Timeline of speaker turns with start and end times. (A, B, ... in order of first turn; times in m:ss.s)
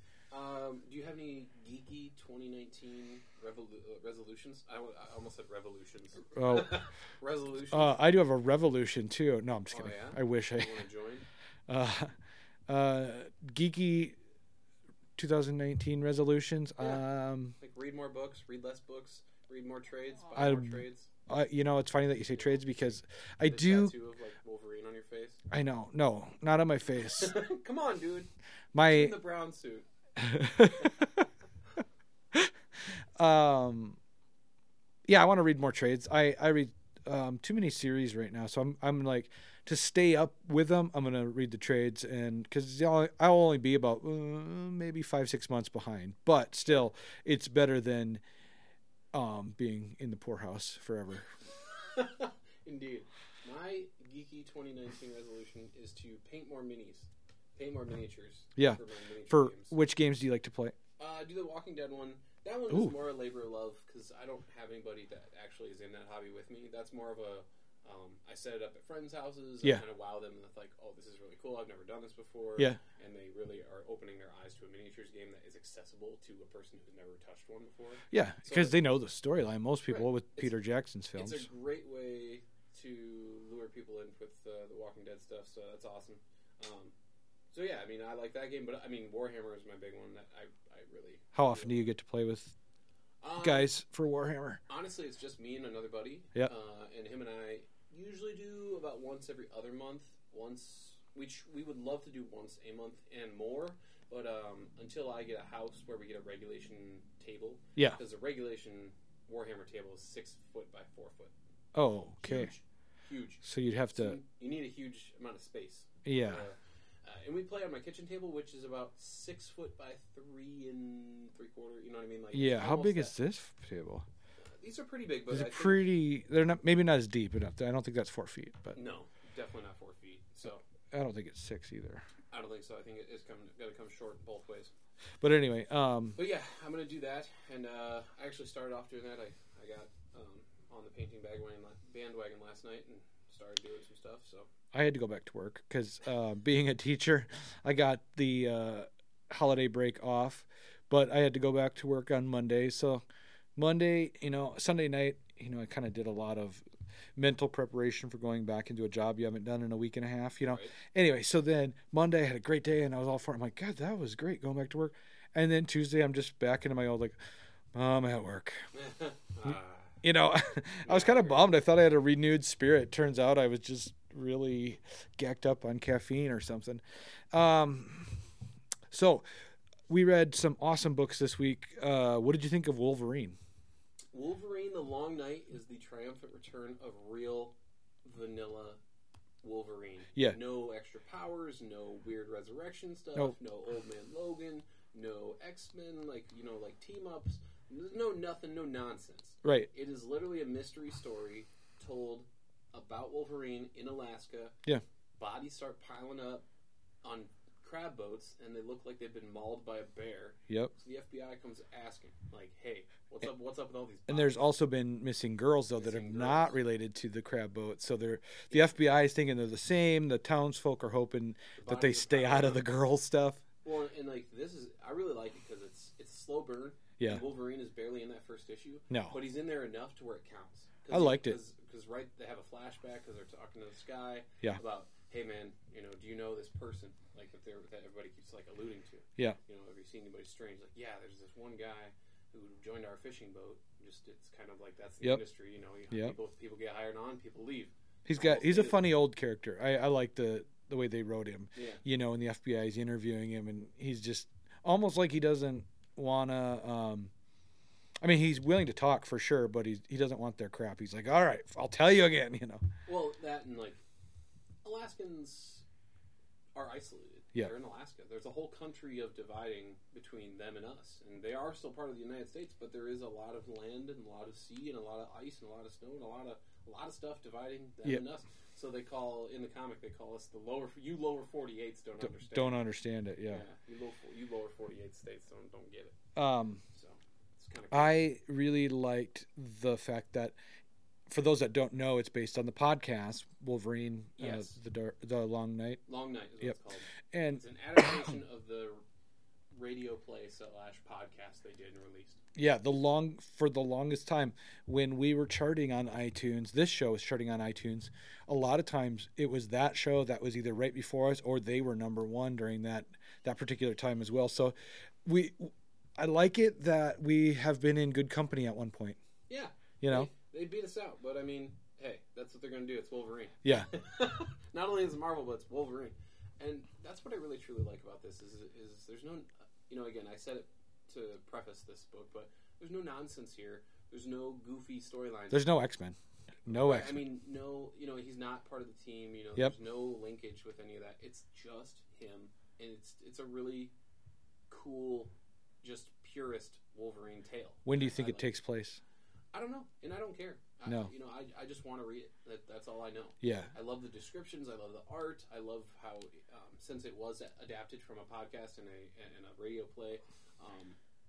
0:00.3-0:08.0 A
0:06.4-0:06.8 B
0:07.7-0:10.8 B
0:09.7-0:11.3 A
0:11.7-0:12.1 B
0:12.7-0:14.2 B
0:15.2-0:17.6 B
0:16.8-0:17.0 A
0:17.6-0:21.1 A
0:20.3-0:23.9 B
0:22.4-0:22.6 A
0:23.5-0:25.4 A
0:25.5-0:27.3 B
0:27.0-0:28.3 A
0:28.7-0:29.2 B
0:28.9-0:29.8 A
0:30.2-0:31.2 B
0:32.3-0:34.0 B
0:35.1-0:48.2 B
0:49.1-0:51.3 B
0:51.7-0:59.7 A
0:58.6-1:00.8 B
1:01.0-1:18.8 A
1:02.7-1:03.0 B
1:18.1-1:21.5 B
1:19.9-1:20.5 A
1:21.1-1:26.9 A
1:27.5-1:31.9 A
1:31.3-1:32.5 B
1:33.2-1:33.7 A
1:33.4-1:34.6 B
1:34.7-1:51.3 A
1:51.7-1:52.5 B
1:52.2-2:03.2 A
1:53.4-1:54.2 B
1:56.0-1:56.4 B
2:02.3-2:04.1 B
2:04.4-2:05.9 A
2:05.3-2:08.8 B
2:08.8-2:10.6 A
2:10.9-2:12.0 B
2:12.3-2:14.7 A
2:15.2-2:16.2 B
2:16.2-2:24.5 A
2:24.7-2:33.0 B
2:33.6-2:36.6 B
2:37.2-2:47.2 B
2:40.4-2:40.7 A
2:47.7-2:48.6 B
2:48.7-2:50.0 A
2:50.0-2:58.1 B
2:50.9-2:51.5 A
2:58.9-2:59.2 B
2:59.9-3:03.4 B
3:04.1-3:08.8 A
3:09.4-3:24.6 A
3:19.4-3:19.7 B
3:25.2-3:26.5 A
3:27.0-3:34.4 A
3:34.1-3:43.4 B
3:35.8-3:36.6 A
3:38.5-3:38.8 A
3:41.6-3:42.6 A
3:43.6-4:08.9 A
3:48.9-3:49.2 B
3:50.9-3:51.4 B
4:08.1-4:17.1 B
4:11.6-4:11.8 A
4:18.0-4:22.6 B
4:22.9-4:23.8 A
4:24.6-4:25.6 A
4:26.6-4:42.6 A
4:42.0-4:43.4 B
4:43.3-4:46.0 A
4:46.2-4:46.6 B
4:46.6-4:48.0 A
4:47.7-4:50.4 B
4:51.1-4:55.8 B
4:54.2-4:54.6 A
4:55.9-4:58.8 A
4:57.1-4:57.4 B
4:59.5-5:02.2 A
5:02.4-5:19.0 B
5:19.3-5:35.5 A
5:19.8-5:20.1 B
5:23.4-5:23.7 B
5:35.3-5:36.0 B
5:36.5-5:37.0 B
5:36.5-5:43.7 A
5:44.5-5:48.3 A
5:47.6-5:48.8 B
5:49.3-6:00.8 A
5:53.2-5:53.5 B